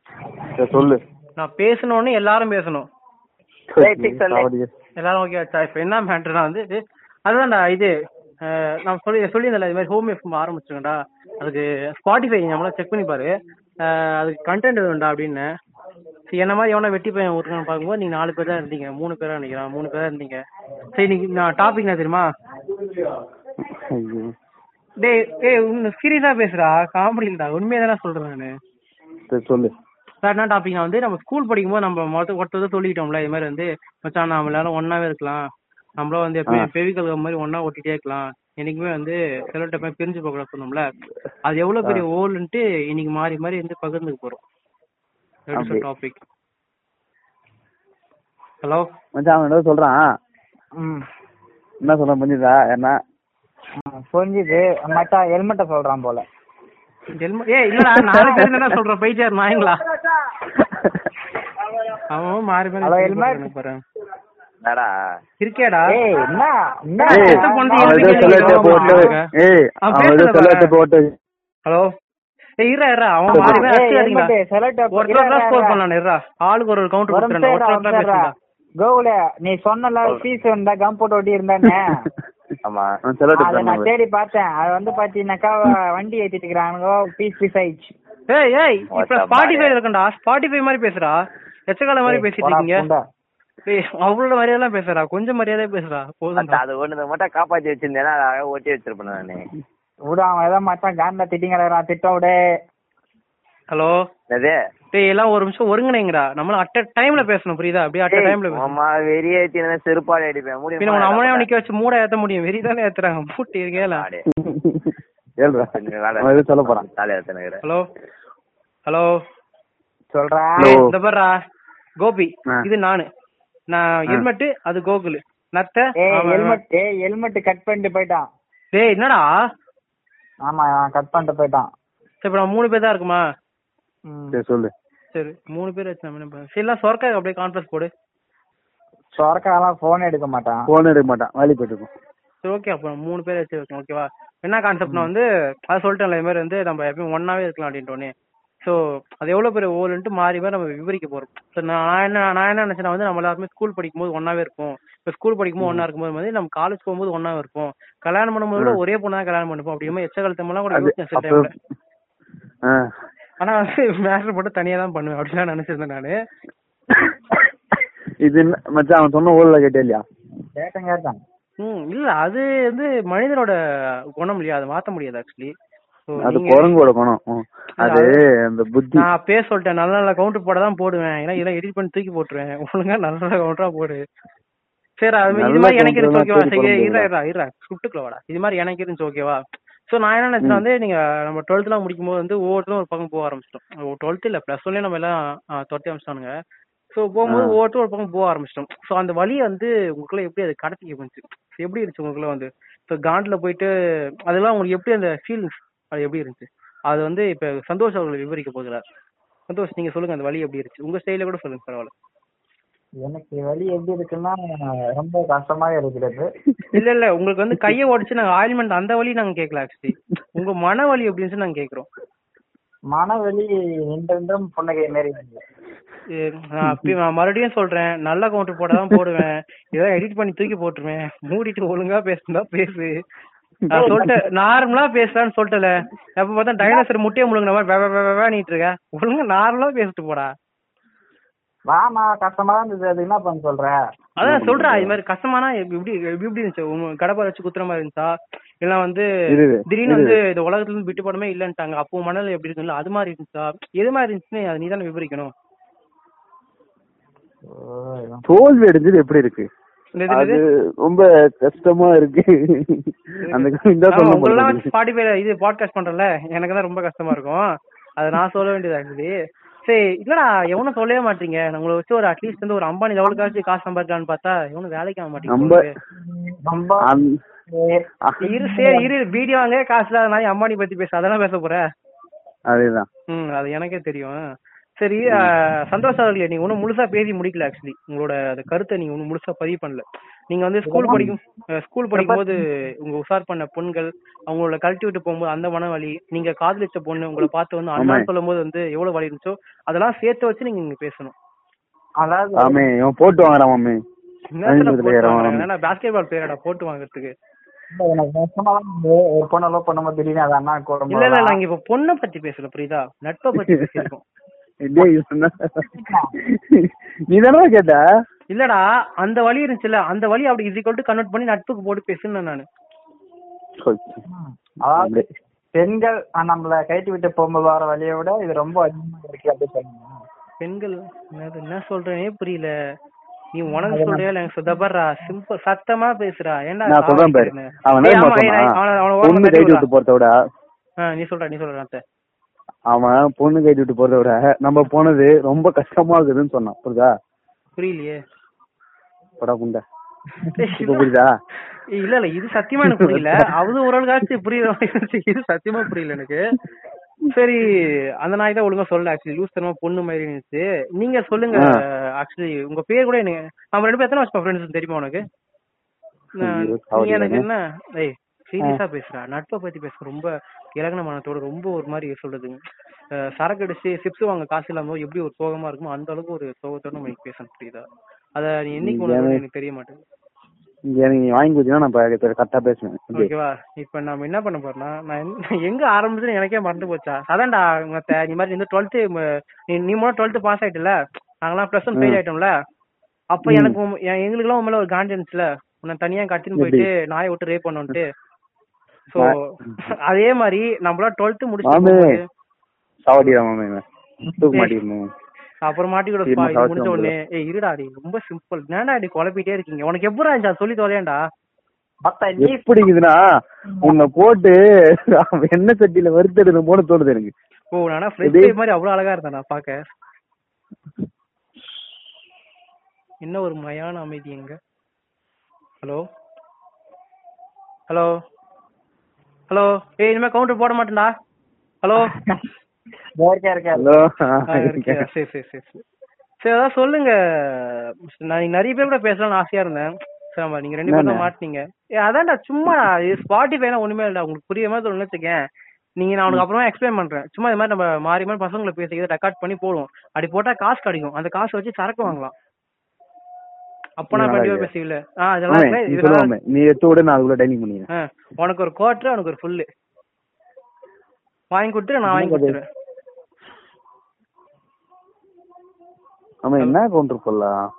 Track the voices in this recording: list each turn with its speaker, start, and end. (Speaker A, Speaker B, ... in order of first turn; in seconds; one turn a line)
Speaker A: 0.6-1.0
Speaker B: 1.4-2.9
Speaker A: 3.8-4.7
Speaker C: 3.8-4.5
Speaker B: 5.0-7.9
Speaker B: 8.5-13.3
Speaker B: 13.8-15.5
Speaker B: 16.3-20.4
Speaker B: 20.9-22.3
Speaker A: 23.6-24.3
Speaker B: 25.0-28.5
Speaker A: 29.3-29.7
Speaker B: 30.2-35.5
Speaker B: 36.0-40.9
Speaker B: 41.5-44.4
Speaker B: 45.5-46.2
Speaker A: 45.5-45.8
Speaker B: 48.6-48.9
Speaker A: 49.2-50.0
Speaker D: 50.8-51.0
Speaker A: 51.8-53.0
Speaker D: 53.8-56.2
Speaker B: 57.2-59.8
Speaker A: 57.9-58.6
Speaker D: 59.8-60.1
Speaker A: 60.6-61.1
Speaker B: 62.1-63.8
Speaker D: 62.8-63.5
Speaker C: 64.6-64.9
Speaker B: 65.4-65.9
Speaker D: 65.9-69.2
Speaker B: 67.0-69.3
Speaker A: 67.1-71.1
Speaker B: 69.9-70.7
Speaker B: 72.6-74.3
Speaker D: 73.3-75.8
Speaker A: 73.3-73.7
Speaker B: 74.9-78.3
Speaker D: 77.1-82.1
Speaker C: 82.7-82.9
Speaker A: 83.1-83.9
Speaker D: 83.4-87.9
Speaker B: 88.3-91.2
Speaker C: 88.9-89.7
Speaker B: 91.7-92.8
Speaker D: 92.1-93.0
Speaker B: 93.7-96.6
Speaker C: 96.4-99.5
Speaker D: 100.1-102.4
Speaker B: 104.9-108.8
Speaker C: 108.1-111.5
Speaker B: 110.8-114.0
Speaker C: 113.8-114.3
Speaker A: 114.3-116.9
Speaker C: 115.6-117.6
Speaker B: 118.9-119.1
Speaker D: 120.1-120.8
Speaker A: 120.6-120.9
Speaker B: 120.6-121.3
Speaker B: 122.0-123.1
Speaker B: 123.7-126.6
Speaker D: 126.0-128.2
Speaker B: 128.7-129.3
Speaker D: 130.5-131.7
Speaker B: 132.2-133.2
Speaker D: 134.1-134.4
Speaker A: 134.3-134.7
Speaker B: 135.1-137.9
Speaker D: 139.2-140.7
Speaker A: 140.7-141.9
Speaker B: 142.4-148.1
Speaker B: 148.6-161.5
Speaker A: 160.7-161.5
Speaker B: 163.4-166.1
Speaker A: 168.2-170.0
Speaker D: 170.6-171.2
Speaker B: 171.6-173.6
Speaker B: 174.2-175.5
Speaker B: 176.1-176.7
Speaker A: 176.2-179.1
Speaker B: 177.8-178.1
Speaker B: 179.0-184.0
Speaker B: 185.0-196.3
Speaker A: 185.3-187.1
Speaker B: 196.9-203.7
Speaker A: 197.3-197.6
Speaker B: 204.3-208.8
Speaker B: 209.5-211.9
Speaker D: 213.0-214.4
Speaker D: 214.9-216.3
Speaker A: 216.5-216.8
Speaker B: 216.7-221.9
Speaker D: 222.9-225.4
Speaker B: 226.2-232.9
Speaker A: 226.7-226.9
Speaker A: 228.8-229.0
Speaker A: 233.7-234.2
Speaker B: 233.7-240.3
Speaker D: 241.7-243.8
Speaker B: 244.2-249.1
Speaker A: 244.2-244.9
Speaker A: 249.3-250.2
Speaker B: 249.7-255.3
Speaker D: 257.5-258.2
Speaker A: 258.3-259.5
Speaker B: 260.0-260.4
Speaker A: 260.1-264.7
Speaker B: 263.2-267.4
Speaker B: 268.0-269.1
Speaker B: 269.6-275.7
Speaker A: 275.3-275.6
Speaker D: 276.0-276.9
Speaker A: 276.8-277.2
Speaker D: 277.5-278.9
Speaker A: 278.1-278.3
Speaker B: 278.2-281.6
Speaker A: 282.5-282.9
Speaker B: 283.1-284.2
Speaker B: 284.8-301.1
Speaker A: 285.1-285.3
Speaker D: 290.7-291.1
Speaker D: 291.9-292.4
Speaker A: 297.8-298.1
Speaker D: 302.0-302.7
Speaker A: 302.4-303.8
Speaker B: 304.4-307.1
Speaker A: 304.5-305.5
Speaker D: 307.7-311.4
Speaker B: 310.9-314.0
Speaker A: 313.5-313.9
Speaker A: 314.6-315.7
Speaker D: 315.7-316.1
Speaker A: 316.2-317.8
Speaker B: 318.3-322.4
Speaker A: 323.6-324.0
Speaker D: 324.1-325.0
Speaker A: 324.8-325.0
Speaker D: 325.6-329.9
Speaker B: 330.4-332.5
Speaker B: 333.3-339.7
Speaker D: 333.5-334.1
Speaker A: 336.7-340.1
Speaker B: 340.8-341.8
Speaker A: 342.7-346.9
Speaker B: 347.6-348.0
Speaker A: 349.2-349.6
Speaker A: 350.2-351.1
Speaker B: 350.3-350.9
Speaker B: 351.7-356.4
Speaker A: 352.6-353.2
Speaker B: 357.1-365.0
Speaker B: 366.2-372.4
Speaker A: 366.2-367.2
Speaker B: 373.0-379.8
Speaker A: 378.6-379.2
Speaker A: 380.7-383.1
Speaker B: 383.0-392.3
Speaker B: 393.1-397.9
Speaker A: 393.2-393.6
Speaker A: 396.4-396.7
Speaker B: 398.9-402.0
Speaker A: 401.5-401.9
Speaker A: 402.9-403.6
Speaker D: 404.1-404.4
Speaker A: 404.2-404.9
Speaker B: 405.4-411.0
Speaker A: 406.1-406.9
Speaker D: 411.8-412.5
Speaker A: 412.2-413.0
Speaker D: 413.6-413.8
Speaker A: 413.6-414.4
Speaker A: 414.9-417.1
Speaker B: 417.5-419.6
Speaker A: 418.0-418.3
Speaker B: 423.0-424.4
Speaker B: 429.3-430.9
Speaker B: 431.6-431.9
Speaker D: 431.9-432.2
Speaker D: 433.0-433.8
Speaker A: 433.6-434.9
Speaker B: 434.3-435.6
Speaker B: 436.2-445.2
Speaker A: 440.7-441.1
Speaker B: 445.8-452.1
Speaker B: 453.8-456.1
Speaker A: 453.9-454.5
Speaker A: 455.3-457.7
Speaker B: 457.7-459.5
Speaker B: 461.3-462.4
Speaker A: 461.9-462.4
Speaker A: 466.2-467.4